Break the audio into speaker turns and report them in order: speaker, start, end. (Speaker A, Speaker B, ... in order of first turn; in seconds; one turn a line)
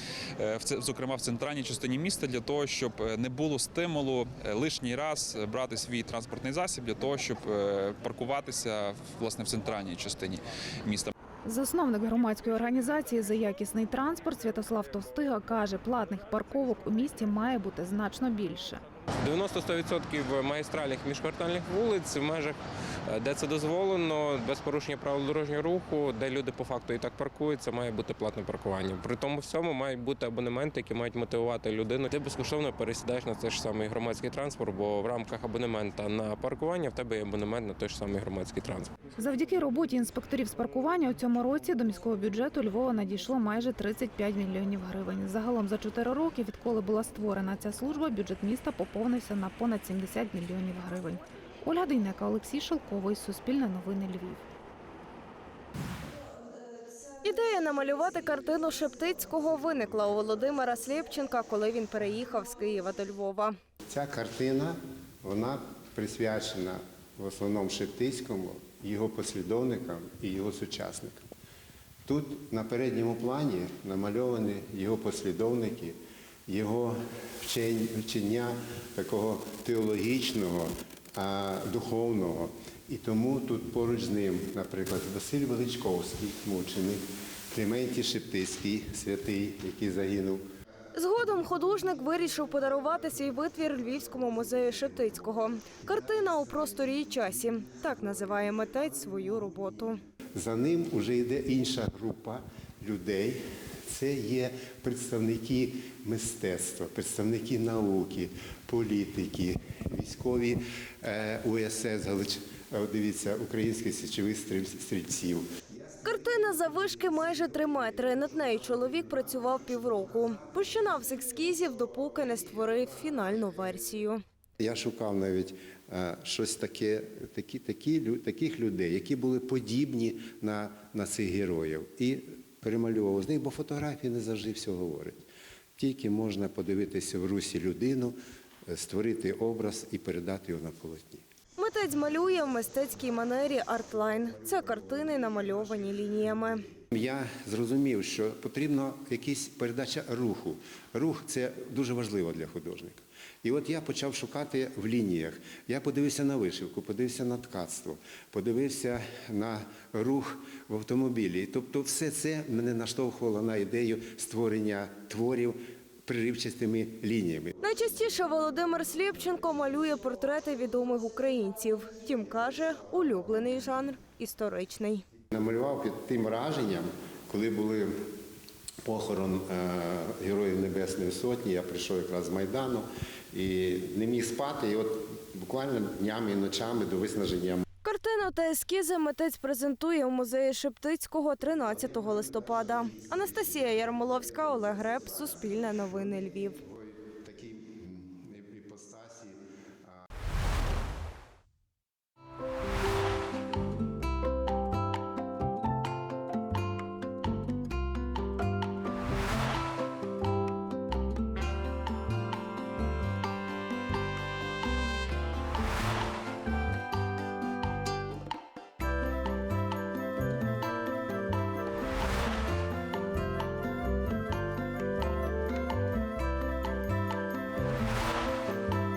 Speaker A: 0.4-11.1
Speaker B: 11.4-18.8
Speaker C: 19.2-22.6
Speaker C: 23.1-38.9
Speaker B: 39.1-54.4
Speaker D: 57.2-63.6
Speaker E: 63.9-71.2
Speaker E: 72.0-90.4
Speaker D: 90.9-100.0
Speaker E: 100.3-115.5
Speaker D: 116.0-124.2
Speaker E: 124.6-135.2
Speaker E: 135.8-138.2
Speaker E: 138.7-141.2
Speaker D: 141.6-146.6
Speaker E: 146.9-167.5
Speaker D: 167.6-175.0
Speaker E: 175.3-178.0
Speaker E: 178.8-187.6
Speaker D: 187.8-196.6
Speaker E: 195.5-195.7
Speaker E: 196.6-199.4